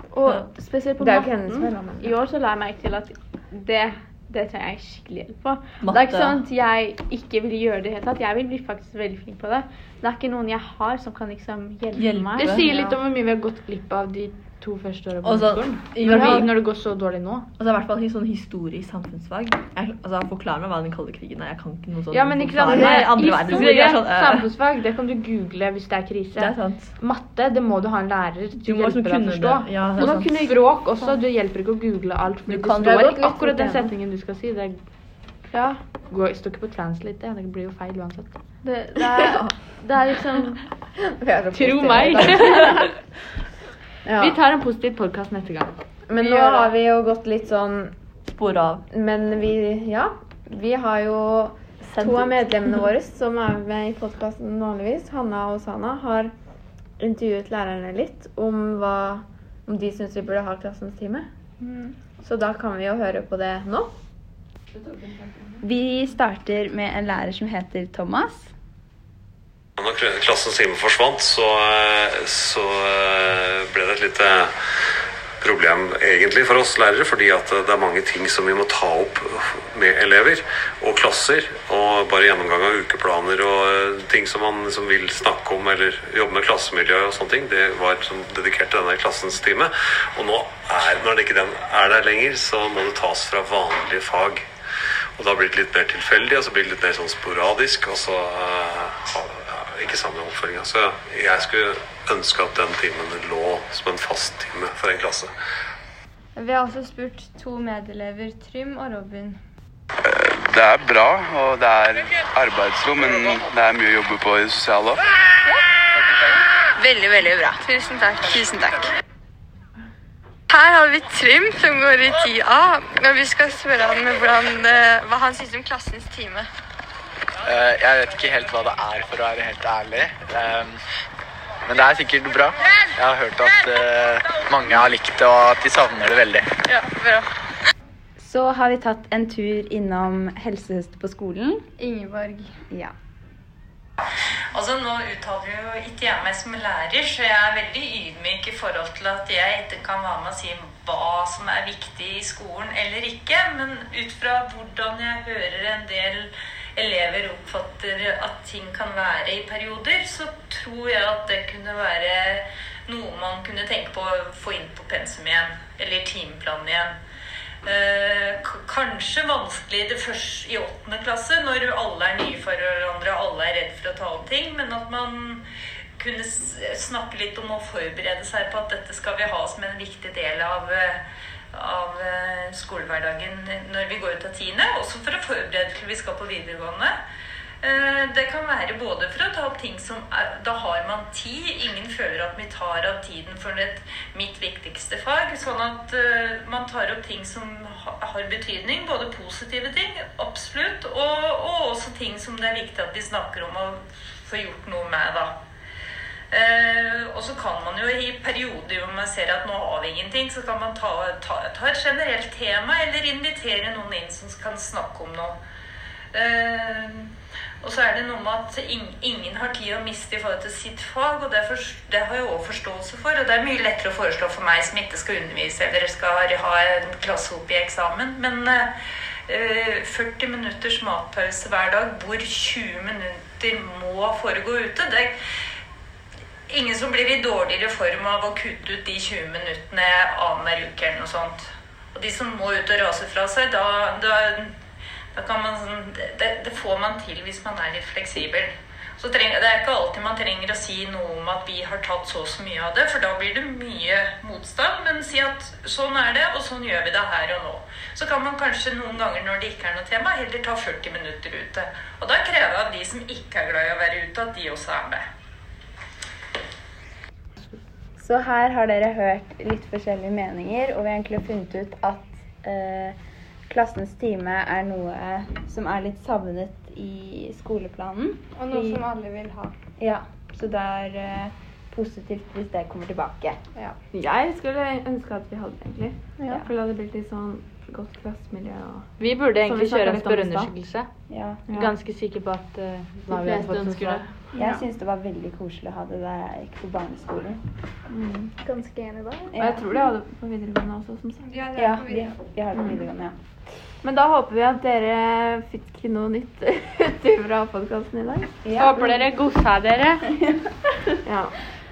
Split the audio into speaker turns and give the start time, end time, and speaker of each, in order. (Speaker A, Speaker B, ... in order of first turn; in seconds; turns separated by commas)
Speaker A: 0.1-12.6, Speaker B: 1.0-2.1, Speaker C: 5.8-6.4, Speaker C: 11.9-12.6, Speaker D: 12.4-17.5, Speaker C: 15.2-16.5, Speaker C: 17.6-24.5, Speaker D: 22.1-34.8, Speaker B: 22.7-23.6, Speaker C: 26.4-26.9, Speaker C: 28.6-30.3, Speaker A: 30.0-31.2, Speaker B: 32.5-33.9, Speaker A: 35.5-35.8, Speaker D: 36.1-38.4, Speaker A: 38.6-40.6, Speaker B: 41.0-42.9, Speaker D: 41.5-42.9, Speaker B: 44.0-44.4, Speaker D: 44.2-46.6, Speaker B: 46.1-47.9, Speaker C: 48.3-48.8, Speaker B: 48.9-56.3, Speaker C: 51.9-52.3, Speaker B: 57.0-61.2, Speaker A: 61.7-61.9, Speaker B: 62.2-63.9, Speaker D: 64.8-65.6, Speaker E: 65.6-68.5, Speaker F: 69.8-74.5, Speaker F: 75.4-94.4, Speaker F: 95.2-105.3, Speaker E: 106.3-109.4, Speaker G: 110.0-115.0, Speaker E: 116.8-118.5, Speaker H: 120.6-122.5, Speaker H: 123.0-125.7, Speaker I: 127.5-130.8, Speaker I: 131.7-136.5, Speaker E: 136.7-137.2, Speaker E: 138.2-142.8, Speaker J: 144.5-166.9, Speaker J: 167.6-175.4, Speaker J: 176.0-181.0, Speaker J: 181.5-186.9, Speaker J: 187.6-205.3, Speaker J: 206.3-215.4, Speaker J: 216.1-217.1, Speaker J: 217.6-228.7, Speaker J: 229.3-235.1, Speaker J: 236.5-244.5, Speaker J: 245.1-265.0, Speaker E: 268.0-272.9, Speaker E: 273.5-278.8, Speaker E: 279.8-283.7, Speaker B: 283.9-288.9, Speaker D: 289.0-290.9, Speaker B: 289.4-290.5, Speaker E: 291.1-291.4, Speaker B: 291.5-291.7, Speaker D: 291.5-294.1, Speaker B: 293.1-294.1, Speaker E: 294.3-297.4, Speaker B: 297.9-298.3, Speaker A: 298.4-299.3, Speaker E: 299.3-299.6, Speaker B: 299.4-301.8, Speaker E: 301.3-303.1, Speaker B: 302.5-302.9, Speaker B: 303.8-309.0, Speaker D: 308.6-310.1, Speaker B: 311.0-311.3